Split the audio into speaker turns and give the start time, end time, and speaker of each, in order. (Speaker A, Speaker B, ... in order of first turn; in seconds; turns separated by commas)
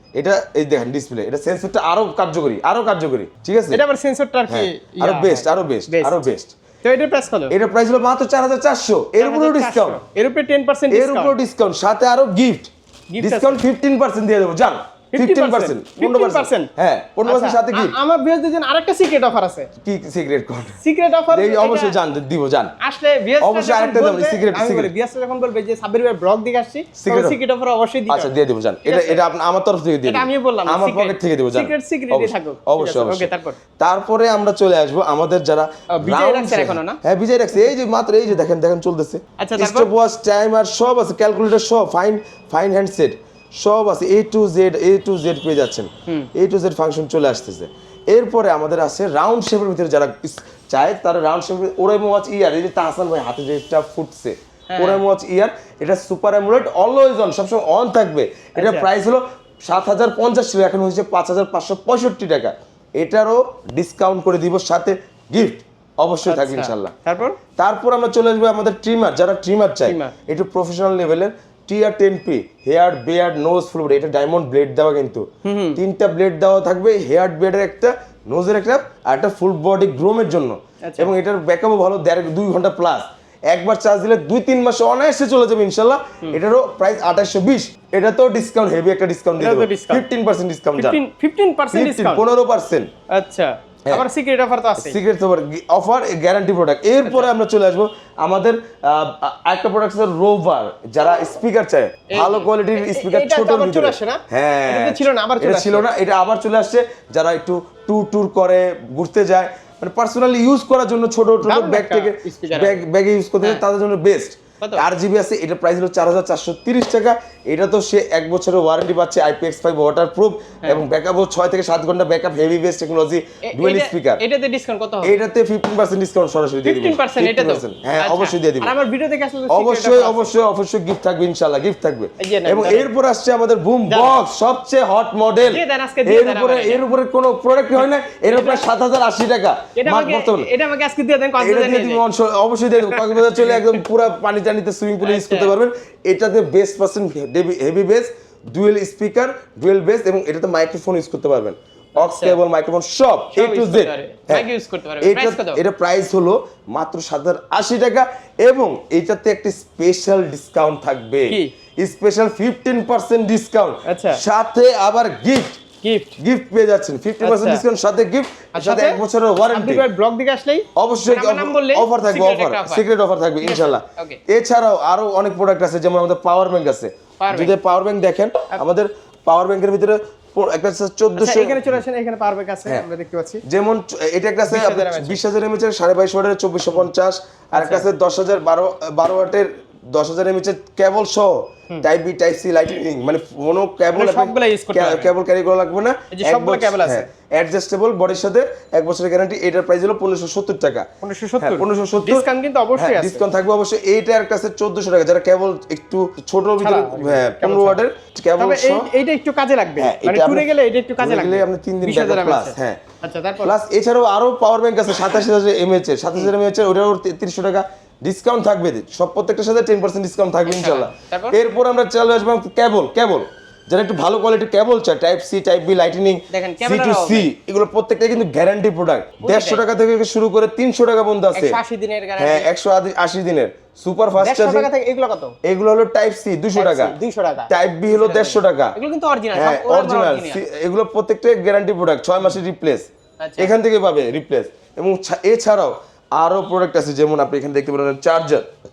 Speaker A: 0.2-3.8, Speaker B: 3.7-6.2, Speaker A: 4.5-6.5, Speaker B: 6.8-7.5, Speaker A: 7.5-10.0, Speaker B: 9.2-11.4, Speaker A: 10.9-17.9, Speaker B: 13.1-13.6, Speaker B: 15.1-16.7, Speaker B: 17.2-19.7, Speaker A: 19.8-20.8, Speaker B: 20.8-22.0, Speaker A: 21.3-22.7, Speaker B: 22.8-28.3, Speaker A: 23.4-24.9, Speaker A: 27.0-27.4, Speaker A: 28.1-66.9, Speaker B: 28.9-29.2, Speaker B: 30.1-33.6, Speaker B: 35.9-37.0, Speaker B: 39.4-39.9, Speaker B: 54.7-55.0, Speaker B: 58.6-58.9, Speaker B: 66.2-67.4, Speaker A: 67.6-91.0, Speaker B: 69.8-70.1, Speaker B: 75.4-75.8, Speaker B: 80.8-81.1, Speaker B: 89.4-90.1, Speaker B: 90.8-92.2, Speaker A: 91.7-92.9, Speaker B: 93.1-95.0, Speaker A: 94.8-124.2, Speaker B: 97.0-97.3, Speaker B: 102.1-105.9, Speaker B: 111.4-112.8, Speaker B: 123.5-125.2, Speaker A: 125.0-128.7, Speaker B: 126.6-130.3, Speaker A: 129.5-140.5, Speaker B: 132.2-132.9, Speaker B: 133.9-134.2, Speaker B: 135.5-136.8, Speaker B: 137.8-138.7, Speaker B: 139.8-142.0, Speaker A: 141.4-154.5, Speaker B: 142.8-143.8, Speaker B: 145.0-145.6, Speaker B: 152.0-152.4, Speaker B: 153.3-155.6, Speaker A: 155.0-165.6, Speaker B: 163.9-164.2, Speaker B: 165.8-166.1, Speaker A: 166.2-169.8, Speaker B: 167.2-167.6, Speaker B: 168.5-169.0, Speaker B: 169.5-172.8, Speaker A: 170.8-181.7, Speaker B: 173.4-174.2, Speaker B: 177.2-177.5, Speaker B: 181.2-183.4, Speaker A: 183.4-200.9, Speaker B: 184.5-185.2, Speaker B: 187.5-187.9, Speaker B: 193.9-195.1, Speaker B: 196.1-197.1, Speaker B: 201.0-203.2, Speaker A: 201.4-202.2, Speaker A: 202.8-208.9, Speaker B: 206.6-207.8, Speaker B: 208.4-213.5, Speaker A: 209.8-210.5, Speaker A: 211.0-212.8, Speaker A: 213.4-231.6, Speaker B: 220.4-221.4, Speaker B: 226.3-227.3, Speaker B: 229.2-229.7, Speaker B: 231.3-232.5, Speaker A: 232.2-234.7, Speaker B: 234.2-235.4, Speaker A: 235.4-236.9, Speaker B: 236.6-240.4, Speaker A: 237.5-238.8, Speaker A: 239.3-248.5, Speaker B: 243.2-243.5